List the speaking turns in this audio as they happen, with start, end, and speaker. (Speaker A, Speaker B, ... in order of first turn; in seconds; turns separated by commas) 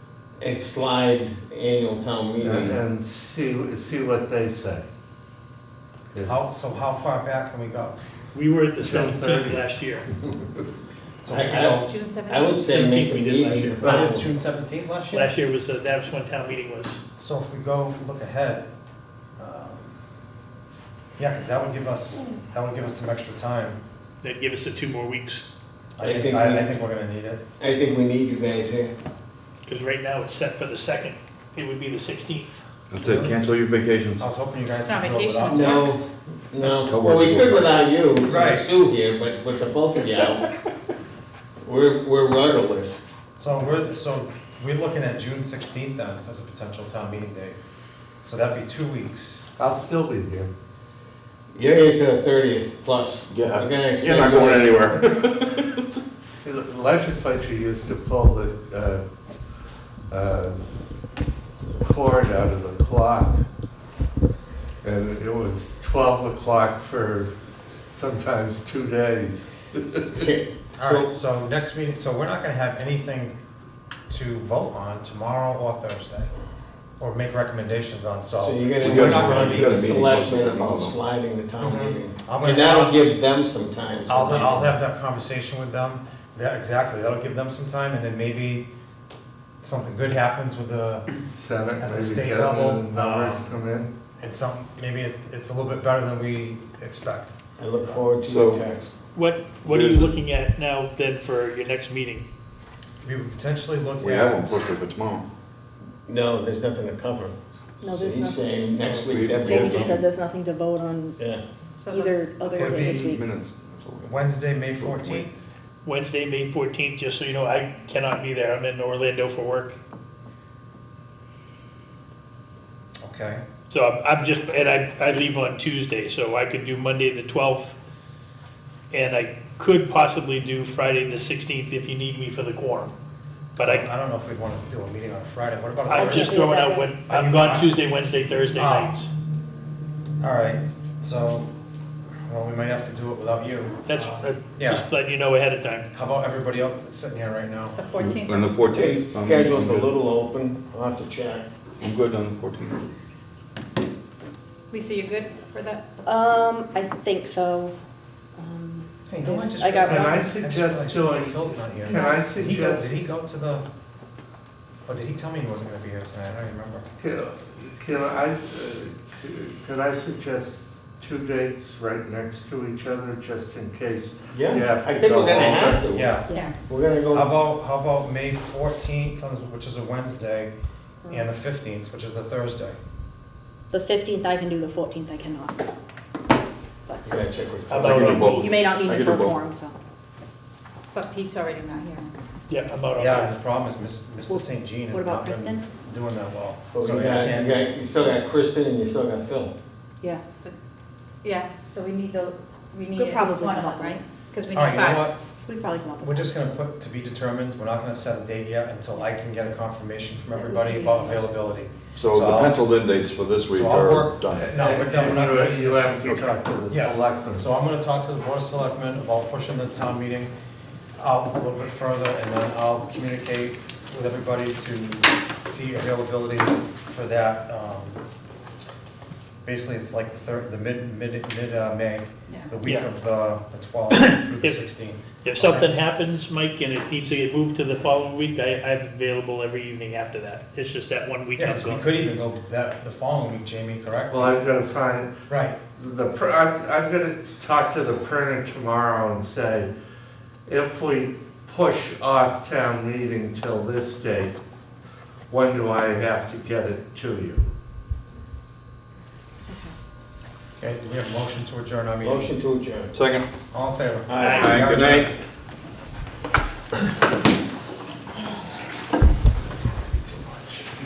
Speaker A: 0.4-2.8, Speaker B: 2.4-4.8, Speaker C: 6.2-8.0, Speaker D: 8.3-10.1, Speaker B: 8.8-10.6, Speaker C: 11.2-11.9, Speaker A: 11.3-14.3, Speaker E: 11.8-12.8, Speaker D: 12.6-14.0, Speaker C: 13.8-15.3, Speaker D: 15.1-17.0, Speaker C: 17.2-18.7, Speaker C: 19.4-19.9, Speaker C: 21.2-23.8, Speaker D: 24.2-25.5, Speaker C: 26.0-27.4, Speaker A: 26.0-26.8, Speaker A: 27.6-28.9, Speaker D: 29.6-32.5, Speaker F: 32.9-34.3, Speaker C: 33.0-33.4, Speaker C: 34.2-36.0, Speaker E: 34.8-35.9, Speaker A: 35.5-40.5, Speaker F: 36.6-37.8, Speaker C: 38.2-38.6, Speaker A: 41.6-43.0, Speaker C: 43.4-47.6, Speaker C: 48.2-49.4, Speaker B: 49.6-50.5, Speaker A: 51.5-54.9, Speaker F: 53.3-55.9, Speaker B: 56.4-59.0, Speaker B: 60.1-60.6, Speaker B: 61.8-63.4, Speaker B: 64.8-67.3, Speaker B: 67.9-70.2, Speaker A: 70.1-71.1, Speaker C: 70.8-73.3, Speaker C: 74.1-76.3, Speaker C: 77.0-79.8, Speaker A: 78.3-84.7, Speaker F: 78.8-81.0, Speaker B: 81.6-81.9, Speaker C: 82.2-83.0, Speaker C: 84.1-88.7, Speaker C: 89.6-91.1, Speaker B: 91.3-93.9, Speaker C: 91.8-93.5, Speaker C: 94.2-97.3, Speaker A: 97.6-98.9, Speaker F: 98.2-98.7, Speaker D: 99.1-102.2, Speaker F: 99.7-100.1, Speaker C: 103.0-104.7, Speaker F: 104.0-105.2, Speaker A: 106.0-107.3, Speaker G: 107.8-108.6, Speaker A: 107.9-110.0, Speaker C: 108.8-109.1, Speaker F: 108.8-110.0, Speaker G: 109.4-111.2, Speaker E: 111.8-112.2, Speaker G: 111.8-113.3, Speaker C: 112.5-113.1, Speaker F: 113.0-115.3, Speaker C: 114.0-115.3, Speaker D: 115.8-119.8, Speaker C: 123.0-123.4, Speaker D: 123.7-127.8, Speaker D: 128.9-132.9, Speaker D: 133.6-133.9, Speaker C: 133.6-136.4, Speaker D: 135.9-139.1, Speaker G: 135.9-136.9, Speaker C: 137.1-137.7, Speaker C: 138.5-139.0, Speaker C: 140.2-141.5, Speaker C: 142.2-144.9, Speaker D: 143.8-145.9, Speaker C: 145.9-147.8, Speaker E: 147.8-148.5, Speaker F: 147.9-149.9, Speaker A: 148.7-151.5, Speaker F: 151.8-152.8, Speaker E: 154.7-155.8, Speaker G: 156.0-157.7, Speaker G: 158.3-160.3, Speaker C: 159.1-163.6, Speaker B: 159.8-162.9, Speaker E: 161.8-162.2, Speaker C: 164.9-166.8, Speaker B: 167.0-175.9, Speaker A: 174.3-177.3, Speaker C: 175.9-176.3, Speaker G: 176.2-176.5, Speaker C: 177.1-180.5, Speaker C: 181.1-182.8, Speaker G: 183.7-185.6, Speaker G: 186.9-187.2, Speaker A: 187.1-188.2, Speaker D: 187.7-188.6, Speaker F: 187.8-189.4, Speaker G: 188.1-189.7, Speaker E: 190.9-192.1, Speaker D: 192.5-193.4, Speaker C: 192.9-197.7, Speaker G: 194.3-195.7, Speaker A: 196.7-199.5, Speaker E: 201.2-205.1, Speaker G: 202.9-204.0, Speaker C: 204.5-205.2, Speaker G: 205.3-206.3, Speaker C: 206.0-212.7, Speaker E: 210.3-211.1, Speaker F: 211.9-214.5, Speaker C: 213.5-220.3, Speaker B: 214.3-217.4, Speaker C: 221.0-228.0, Speaker C: 229.4-235.8, Speaker E: 232.3-232.5, Speaker D: 233.9-234.6, Speaker D: 235.2-241.9, Speaker C: 241.4-244.4, Speaker B: 244.1-245.1, Speaker C: 245.3-245.6, Speaker B: 245.7-249.7, Speaker B: 250.4-254.4, Speaker B: 255.3-257.5, Speaker C: 260.6-262.3, Speaker A: 262.0-262.9, Speaker F: 262.9-263.3, Speaker C: 263.5-265.1, Speaker A: 264.1-265.1, Speaker F: 264.2-265.1, Speaker C: 269.6-270.6